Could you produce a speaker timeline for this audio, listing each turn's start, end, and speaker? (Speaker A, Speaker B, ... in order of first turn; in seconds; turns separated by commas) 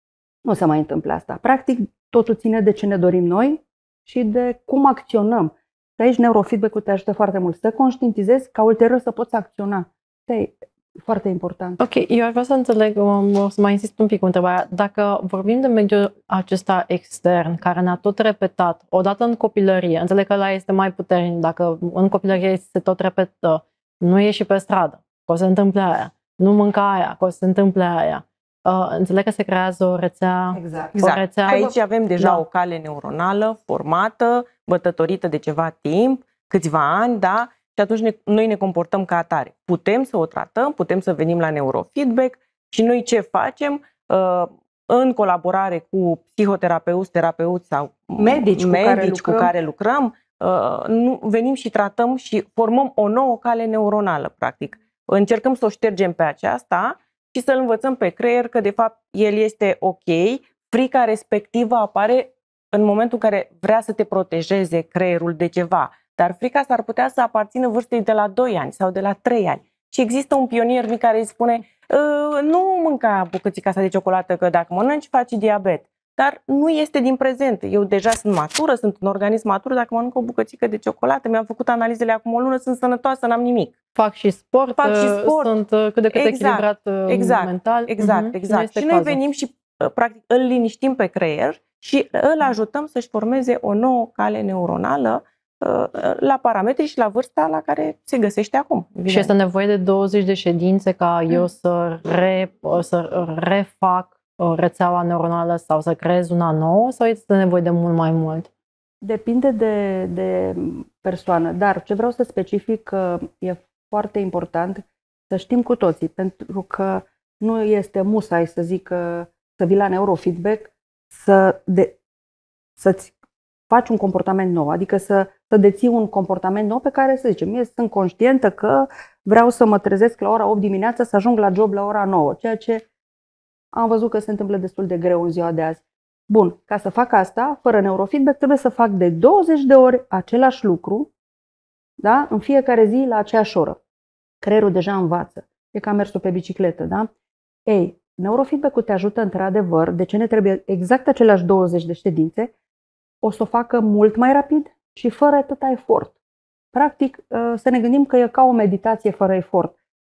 Speaker A: 0.4-11.8, Speaker B: 11.8-32.4, Speaker A: 30.5-31.7, Speaker C: 31.0-83.7, Speaker A: 48.2-49.5, Speaker B: 84.0-89.2, Speaker C: 84.8-85.5, Speaker C: 86.1-99.3, Speaker B: 99.1-108.5, Speaker A: 109.0-122.0, Speaker A: 122.8-123.1, Speaker A: 123.7-132.8, Speaker A: 133.7-141.1, Speaker A: 142.0-143.8, Speaker A: 144.4-147.1, Speaker A: 147.7-152.5, Speaker A: 153.2-156.1, Speaker A: 156.7-159.7